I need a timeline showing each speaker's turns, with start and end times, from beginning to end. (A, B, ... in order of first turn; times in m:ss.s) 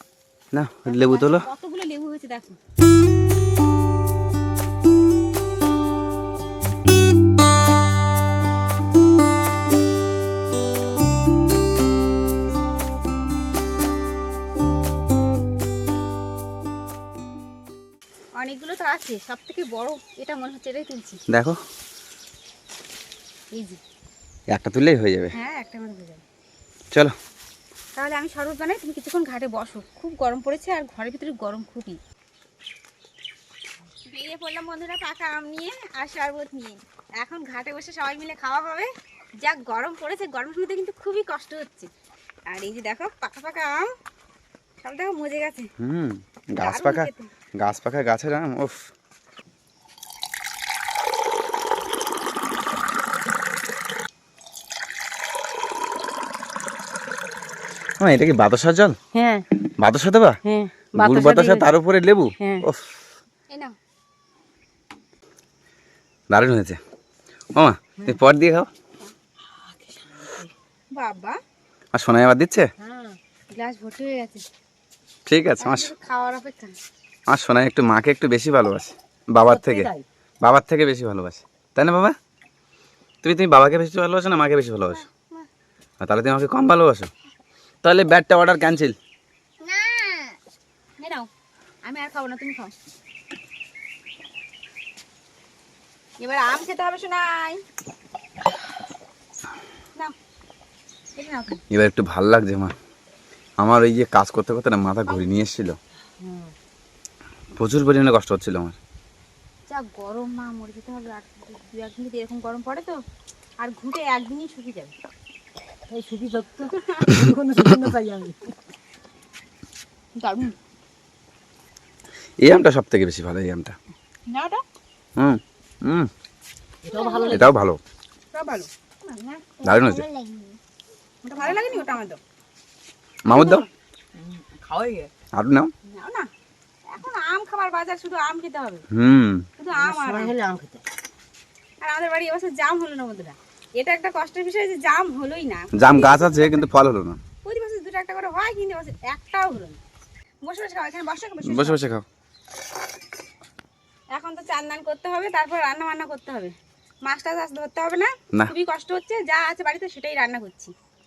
0:00.5-0:01.5 A
0:00.8-0:02.6 B
0:18.4-0:21.2 B
0:21.3-0:21.6 A
0:23.5-0:23.8 B
0:24.5-0:25.3 A
0:25.3-0:26.2 B
0:27.9-0:32.0 B
0:34.0-0:38.9 B
0:39.4-0:41.9 B
0:42.5-0:43.9 B
0:44.8-0:45.7 B
0:45.8-0:48.9 A
0:46.6-0:47.3 B
0:58.0-0:59.0 A
0:59.1-0:59.4 C
0:59.8-1:00.4 A
1:00.4-1:01.7 C
1:01.0-1:03.0 A
1:03.5-1:03.7 B
1:06.3-1:06.8 A
1:07.5-1:08.7 A
1:09.6-1:10.5 C
1:10.9-1:11.4 B
1:11.9-1:12.7 A
1:12.8-1:13.2 C
1:13.5-1:14.4 B
1:15.3-1:15.9 A
1:15.6-1:16.7 B
1:17.3-1:19.9 A
1:19.5-1:20.0 C
1:20.4-1:22.2 A
1:23.2-1:25.0 A
1:24.9-1:25.5 B
1:26.0-1:27.1 A
1:27.8-1:29.0 A
1:29.6-1:30.4 B
1:31.0-1:31.3 B
1:31.8-1:32.7 B
1:36.2-1:37.6 B
1:41.1-1:41.6 B
1:41.7-1:42.7 A
1:43.6-1:45.8 A
1:46.2-1:46.5 C
1:47.6-1:48.8 A
1:49.7-1:53.0 B
1:53.6-1:54.9 B
1:55.9-1:58.4 C
1:56.7-1:57.2 B
2:00.2-2:00.6 B
2:02.4-2:03.8 A
2:04.3-2:04.6 B
2:05.2-2:06.1 A
2:06.8-2:07.5 C
2:06.9-2:07.5 B
2:07.3-2:07.8 A
2:08.3-2:09.6 B
2:09.6-2:10.0 A
2:09.6-2:10.3 C
2:11.2-2:12.2 B
2:13.2-2:13.6 A
2:13.3-2:13.7 B
2:14.5-2:14.9 C
2:15.4-2:15.7 A
2:15.8-2:16.3 B
2:16.9-2:18.8 B
2:18.9-2:19.4 A
2:19.6-2:20.3 B
2:19.7-2:20.8 C
2:21.8-2:26.6 B
2:25.8-2:27.2 A
2:27.4-2:29.8 B
2:30.4-2:31.8 B
2:31.4-2:32.0 A
2:34.1-2:40.7 B